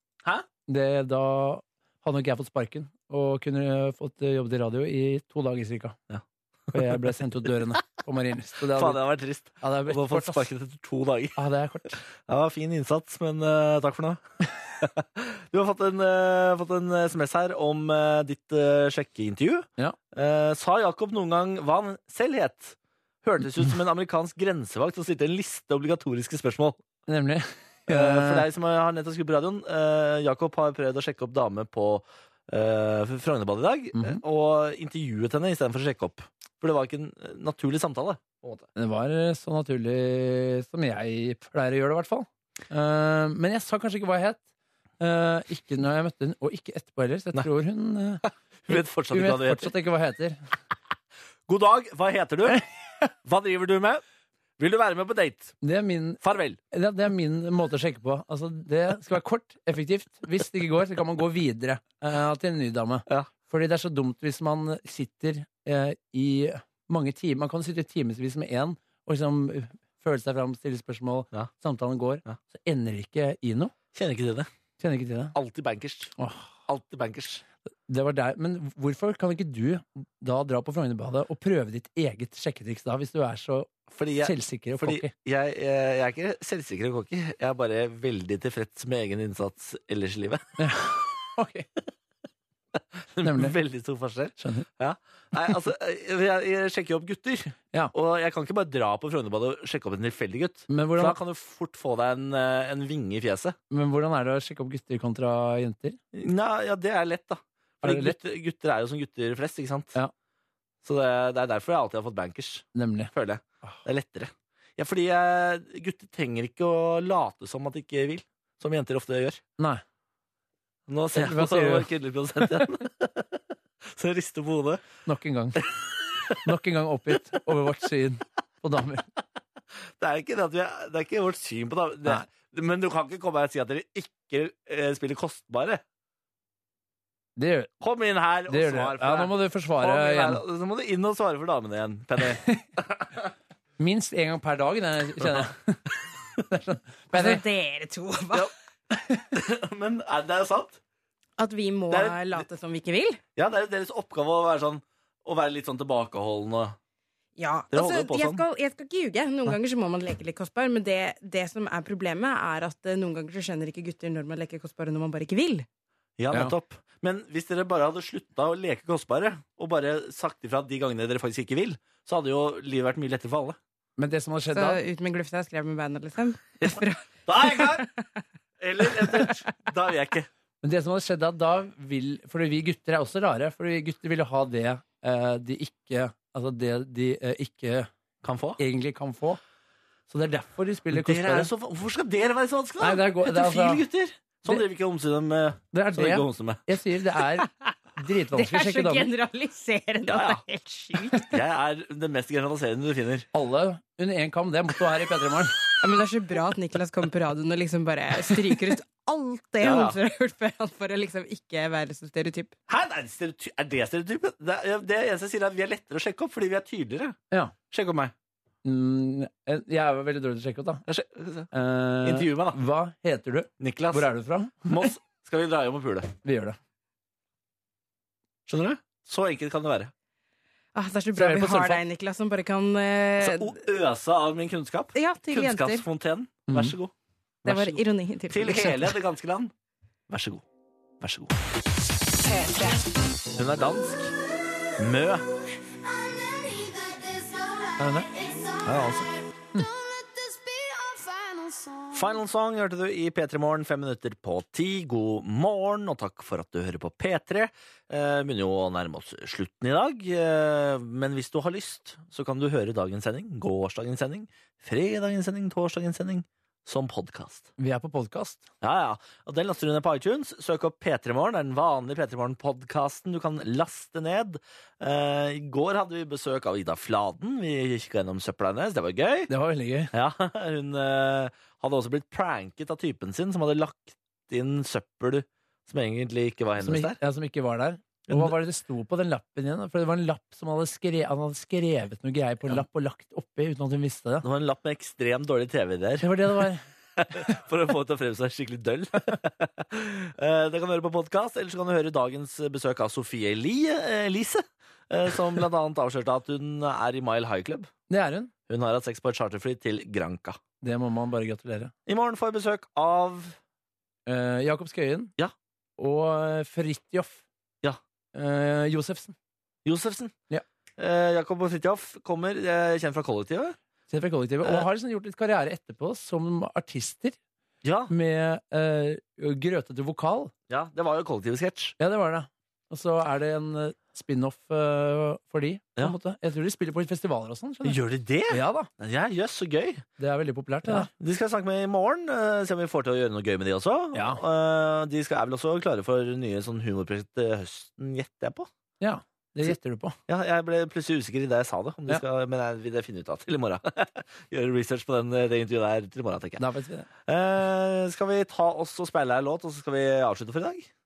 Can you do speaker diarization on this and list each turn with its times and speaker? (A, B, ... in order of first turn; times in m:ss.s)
0:00.7-0:06.0 A
0:06.1-0:07.0 B
0:06.7-0:09.0 A
0:08.7-0:11.4 B
0:09.6-0:10.5 A
0:11.4-0:12.0 A
0:12.0-0:14.2 B
0:14.8-0:26.8 B
0:27.1-0:28.5 A
0:27.9-0:38.7 B
0:34.0-0:34.2 A
0:38.8-0:44.4 A
0:45.0-0:50.4 A
0:48.6-0:49.7 B
0:51.5-0:52.6 B
0:53.2-0:54.0 B
0:54.6-0:55.6 B
0:55.6-0:56.2 A
0:56.2-0:56.6 B
0:56.7-1:13.7 A
1:13.9-1:14.5 B
1:14.8-1:15.3 A
1:15.3-1:16.2 B
1:16.2-1:16.6 A
1:16.7-1:17.4 B
1:17.9-1:25.1 A
1:23.9-1:30.6 B
1:30.6-1:31.7 A
1:32.8-1:43.6 B
1:33.2-1:33.6 A
1:34.4-1:34.7 A
1:40.7-1:41.2 A
1:43.7-1:46.0 A
1:46.1-1:50.0 B
1:47.8-1:48.2 A
1:50.8-1:59.4 B
1:52.8-1:53.1 A
2:00.9-2:04.8 B
2:01.1-2:02.7 A
2:05.0-2:05.6 A
2:05.6-2:06.4 B
2:06.4-2:09.1 A
2:10.0-2:15.8 B
2:17.4-2:17.7 A
2:17.8-2:23.3 B
2:18.5-2:20.4 A
2:23.8-2:25.8 A
2:26.5-2:27.4 A
2:27.1-2:28.5 C
2:29.3-2:30.8 B
2:31.4-2:33.2 C
2:31.9-2:32.4 B
2:33.4-2:36.8 B
2:37.4-2:45.7 C
2:37.7-2:38.4 B
2:46.2-2:53.6 B
2:54.0-2:54.8 A
2:54.5-2:57.9 C
2:57.3-2:57.9 B
2:58.6-3:00.3 B
2:58.9-2:59.4 C
3:00.6-3:07.9 A
3:08.2-3:08.6 B
3:08.6-3:09.4 A
3:10.1-3:11.5 A
3:10.9-3:16.6 B
3:12.8-3:13.8 A
3:15.7-3:19.1 A
3:18.3-3:21.4 C
3:20.1-3:20.4 B
3:21.3-3:23.3 B
3:23.3-3:25.6 A
3:25.8-3:32.6 C
3:29.6-3:30.0 B
3:32.7-3:37.2 B
3:37.7-3:38.1 B
3:38.6-3:40.8 A
3:40.9-3:41.5 B
3:41.5-3:44.9 A
3:42.0-3:42.6 B
3:43.6-3:44.1 B
3:44.6-3:46.1 B
3:46.2-3:46.6 A
3:48.5-3:49.9 B
3:50.8-3:53.6 C
3:51.2-3:51.8 A
3:53.2-3:56.9 B
3:54.9-3:55.9 C
3:56.5-3:56.8 A
3:57.4-3:59.5 B
3:57.4-3:59.0 C
4:00.1-4:00.4 B
4:01.0-4:01.3 B
4:02.4-4:02.8 C
4:03.4-4:04.2 B
4:04.8-4:05.3 B
4:07.8-4:08.1 A
4:08.6-4:09.1 B
4:11.9-4:27.5 B
4:27.6-4:28.4 A
4:28.6-4:39.3 B
4:39.3-4:39.9 A
4:39.9-4:47.0 B
4:46.6-4:54.2 A
4:48.1-4:48.3 B
4:54.2-5:07.7 B
4:56.0-4:56.7 A
5:07.9-5:08.3 A
5:08.5-5:10.4 B
5:10.6-5:11.7 A
5:11.9-5:13.4 B
5:14.1-5:15.1 A
5:15.8-5:17.2 A
5:18.1-5:19.2 A
5:19.6-5:20.2 B
5:20.8-5:23.6 B
5:23.9-5:27.2 A
5:27.6-5:27.9 B
5:27.9-5:30.3 A
5:30.5-5:31.8 B
5:31.8-5:38.7 A
5:37.6-5:39.8 B
5:40.0-5:40.9 A
5:40.6-5:48.5 B
5:43.9-5:44.2 A
5:48.8-5:50.0 A
5:50.1-5:56.4 B
5:56.4-5:56.9 A
5:57.1-6:00.7 B